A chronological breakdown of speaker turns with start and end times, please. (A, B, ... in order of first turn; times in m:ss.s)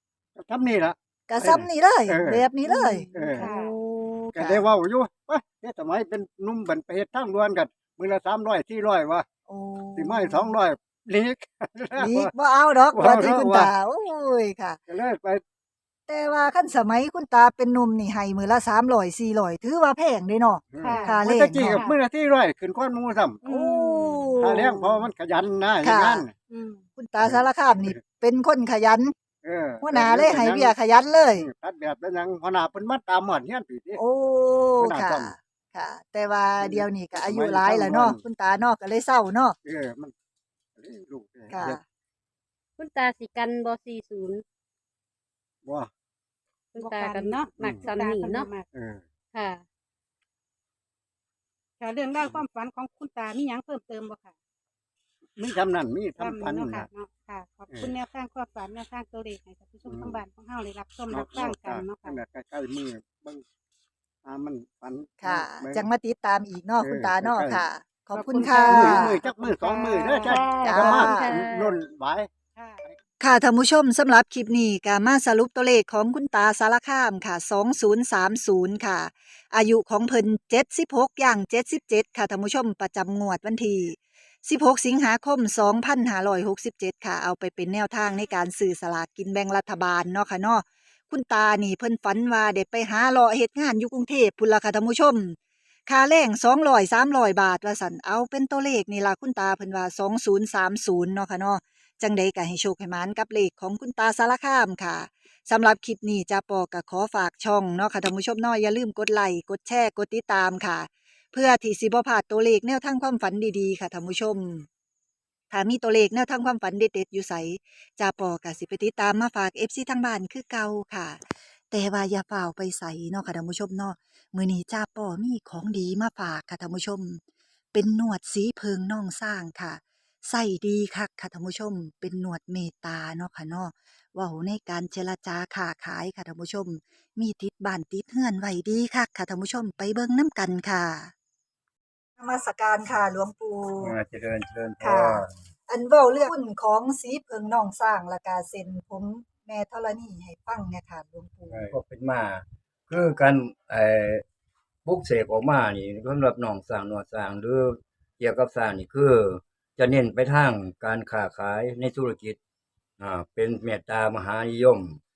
0:00.4-0:03.5 A
0:01.3-0:04.6 B
0:03.3-0:03.7 C
0:04.3-0:09.2 A
0:09.5-0:10.5 B
0:10.0-0:12.3 A
0:12.0-0:14.8 B
0:12.9-0:13.7 A
0:14.9-0:15.4 A
0:16.1-0:21.8 B
0:20.7-0:23.4 A
0:20.8-0:21.2 C
0:23.4-0:24.4 C
0:23.5-0:25.1 B
0:24.4-0:26.3 A
0:25.8-0:26.2 B
0:26.5-0:26.8 C
0:27.0-0:29.1 B
0:27.2-0:28.0 A
0:29.4-0:30.7 A
0:29.8-0:31.4 B
0:31.4-0:34.0 A
0:34.0-0:39.6 B
0:34.8-0:35.3 A
0:36.6-0:38.2 A
0:39.6-0:40.1 A
0:40.8-0:41.8 A
0:41.5-0:41.8 B
0:42.8-0:44.4 D
0:45.6-0:45.9 A
0:46.7-0:48.5 D
0:46.7-0:48.7 C
0:47.6-0:47.9 A
0:48.7-0:49.0 A
0:49.3-0:49.6 D
0:51.8-0:54.4 C
0:55.4-0:56.9 A
0:56.2-1:02.2 C
0:59.8-1:00.2 A
1:01.1-1:03.4 A
1:04.2-1:05.9 A
1:05.2-1:09.2 B
1:06.8-1:07.6 A
1:08.1-1:10.4 C
1:08.6-1:12.3 A
1:10.2-1:11.7 D
1:10.6-1:11.3 B
1:12.6-1:12.9 C
1:13.2-1:54.7 B
1:55.5-2:07.2 B
2:07.7-2:21.1 B
2:22.2-2:24.0 B
2:23.8-2:25.3 E
2:24.8-2:31.7 B
2:31.5-2:34.2 E
2:34.8-2:42.4 E
2:43.0-2:45.0 E